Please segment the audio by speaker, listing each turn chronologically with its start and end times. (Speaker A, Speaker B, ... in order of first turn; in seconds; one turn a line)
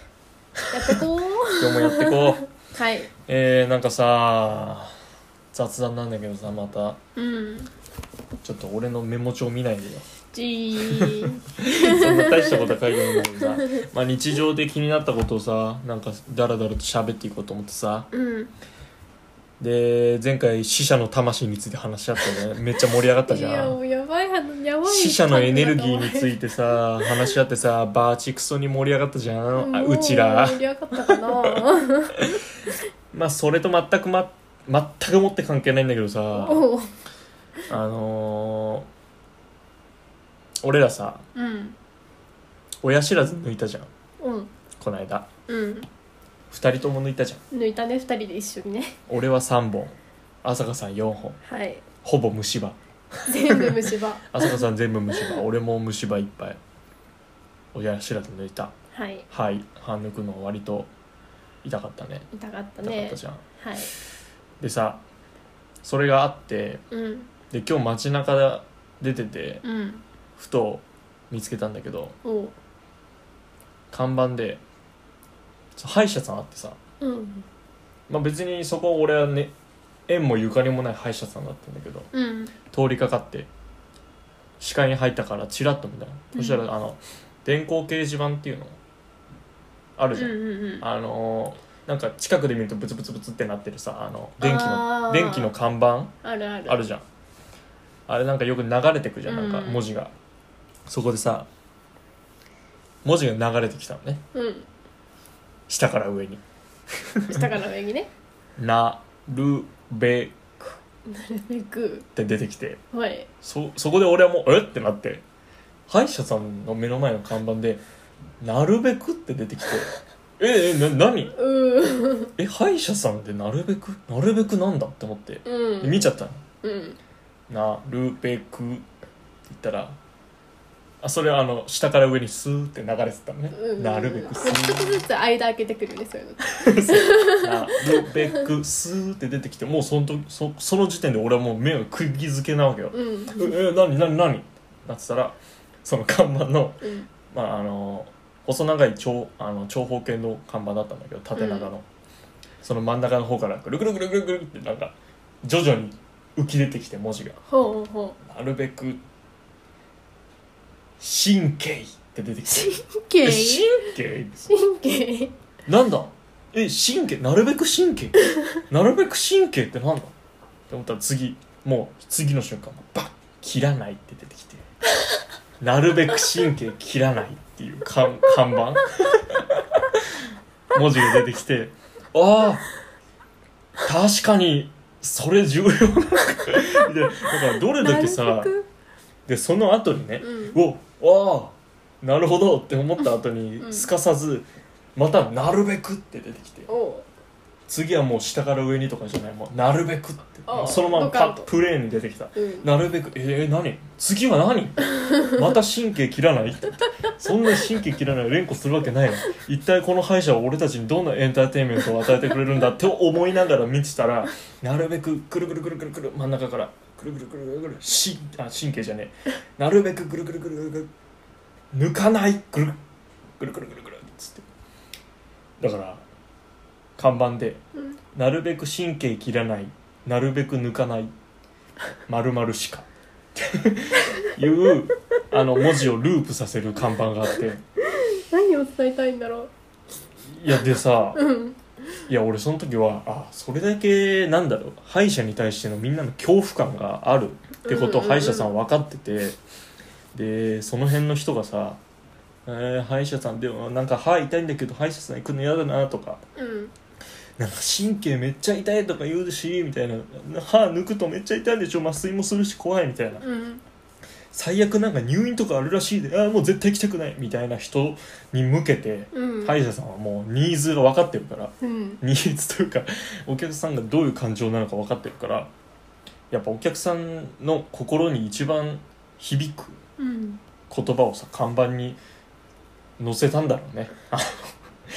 Speaker A: 0.7-3.1
Speaker B: 1.5-2.5
Speaker B: 3.3-4.9
Speaker B: 5.5-7.0
Speaker A: 7.2-7.7
Speaker B: 8.4-10.1
Speaker A: 10.3-13.8
Speaker B: 11.0-18.1
Speaker A: 18.1-18.5
Speaker B: 19.6-23.8
Speaker A: 23.3-26.4
Speaker B: 24.9-31.2
Speaker A: 27.0-27.4
Speaker A: 29.6-32.2
Speaker B: 33.1-36.7
Speaker A: 36.3-36.9
Speaker B: 37.7-38.9
Speaker B: 40.6-41.2
Speaker A: 41.4-41.8
Speaker B: 42.8-43.9
Speaker A: 44.2-44.5
Speaker B: 44.8-45.3
Speaker A: 45.5-45.9
Speaker B: 46.5-47.4
Speaker A: 47.5-49.0
Speaker B: 49.1-51.4
Speaker A: 51.4-51.9
Speaker B: 52.0-53.8
Speaker A: 53.3-54.6
Speaker B: 54.3-56.6
Speaker B: 57.7-58.7
Speaker A: 58.9-59.3
Speaker B: 59.3-60.9
Speaker B: 61.6-62.3
Speaker A: 62.3-63.9
Speaker B: 62.8-63.4
Speaker B: 64.6-65.0
Speaker B: 65.8-66.8
Speaker A: 66.9-67.3
Speaker B: 67.5-69.7
Speaker A: 69.6-70.0
Speaker B: 70.4-72.2
Speaker A: 72.2-72.5
Speaker B: 73.9-74.6
Speaker B: 75.8-76.8
Speaker A: 77.0-77.5
Speaker B: 78.1-79.5
Speaker B: 80.1-82.1
Speaker A: 82.1-82.5
Speaker B: 82.7-83.5
Speaker B: 84.6-88.8
Speaker A: 86.4-86.6
Speaker B: 90.0-96.1
Speaker A: 90.2-90.8
Speaker A: 94.4-95.5
Speaker A: 96.2-96.8
Speaker B: 96.7-97.0
Speaker B: 98.1-100.1
Speaker A: 99.3-99.9
Speaker B: 100.9-101.5
Speaker B: 103.0-104.2
Speaker A: 104.3-104.7
Speaker B: 105.7-106.4
Speaker B: 107.0-107.4
Speaker A: 107.3-108.1
Speaker B: 108.6-110.4
Speaker A: 111.1-112.1
Speaker B: 112.2-112.8
Speaker A: 112.9-113.3
Speaker B: 113.4-115.2
Speaker B: 115.9-117.8
Speaker B: 118.4-121.4
Speaker A: 121.4-122.3
Speaker B: 122.4-126.4
Speaker A: 125.5-126.1
Speaker A: 126.6-127.0
Speaker B: 127.5-128.8
Speaker B: 129.5-130.0
Speaker B: 131.0-135.1
Speaker A: 133.6-138.4
Speaker B: 136.4-151.8
Speaker A: 142.9-143.5
Speaker A: 146.8-147.1
Speaker A: 151.4-151.7
Speaker B: 152.6-157.4
Speaker A: 157.5-158.2
Speaker B: 158.2-159.0
Speaker B: 161.0-164.4
Speaker A: 162.5-163.9
Speaker A: 164.4-165.3
Speaker B: 165.7-170.1
Speaker B: 170.7-174.7
Speaker B: 175.6-180.1
Speaker B: 180.7-182.7
Speaker B: 183.8-188.5
Speaker A: 187.8-188.7
Speaker B: 189.3-196.7
Speaker A: 190.2-190.6
Speaker A: 193.6-193.9
Speaker A: 196.7-197.1
Speaker B: 197.7-220.9
Speaker A: 200.5-201.5
Speaker A: 202.4-202.7
Speaker B: 221.7-222.8
Speaker B: 223.4-224.5
Speaker B: 225.6-226.0
Speaker B: 227.0-227.6
Speaker B: 228.2-231.1
Speaker B: 232.1-237.6
Speaker A: 237.9-239.5
Speaker B: 240.2-241.2
Speaker A: 241.2-241.6
Speaker B: 242.1-249.4
Speaker A: 247.7-248.6
Speaker B: 250.1-251.8
Speaker B: 252.5-256.2
Speaker A: 256.4-256.7
Speaker B: 257.4-263.2
Speaker A: 263.2-263.6
Speaker B: 264.3-275.5
Speaker A: 269.1-269.6
Speaker A: 271.6-272.0
Speaker B: 276.3-279.8
Speaker A: 280.0-280.4
Speaker B: 280.7-282.0
Speaker B: 283.0-284.5